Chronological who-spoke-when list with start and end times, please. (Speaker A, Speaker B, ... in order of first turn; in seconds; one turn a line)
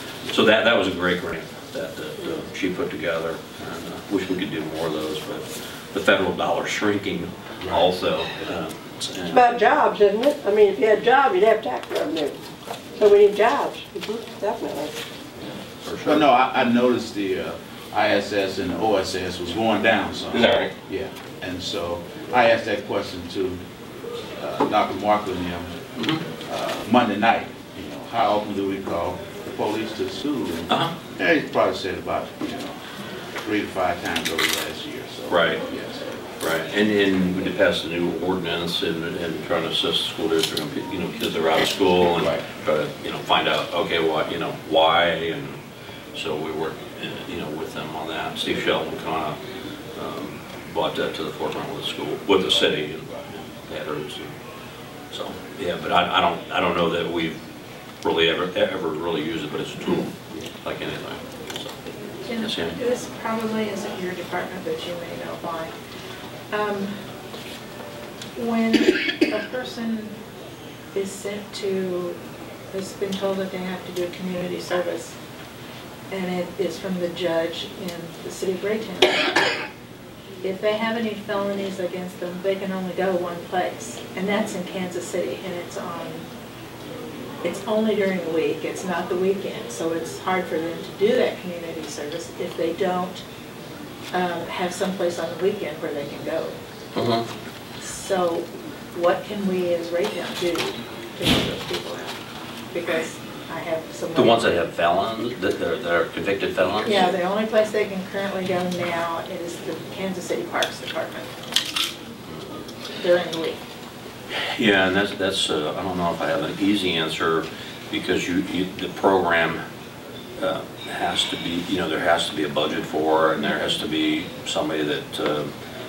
Speaker A: 0.2-9.4
Speaker B: 9.3-12.3
Speaker B: 13.0-14.9
Speaker A: 15.8-16.3
Speaker C: 16.0-23.6
Speaker A: 20.3-20.7
Speaker C: 24.4-25.7
Speaker A: 26.0-26.2
Speaker C: 26.5-32.7
Speaker C: 33.4-36.2
Speaker A: 35.3-35.6
Speaker A: 36.4-45.6
Speaker A: 46.1-49.4
Speaker A: 50.0-54.4
Speaker A: 55.1-57.4
Speaker A: 58.0-61.8
Speaker D: 62.3-65.7
Speaker A: 62.4-62.8
Speaker D: 66.5-66.9
Speaker D: 68.4-70.1
Speaker D: 70.9-72.2
Speaker D: 72.7-75.1
Speaker D: 76.1-79.3
Speaker D: 80.4-86.2
Speaker D: 87.4-93.2
Speaker D: 94.1-96.5
Speaker A: 97.0-97.3
Speaker D: 97.8-102.2
Speaker D: 102.7-104.6
Speaker A: 104.2-107.0
Speaker D: 106.8-111.3
Speaker D: 113.0-113.6
Speaker A: 114.3-119.6
Speaker A: 120.4-125.5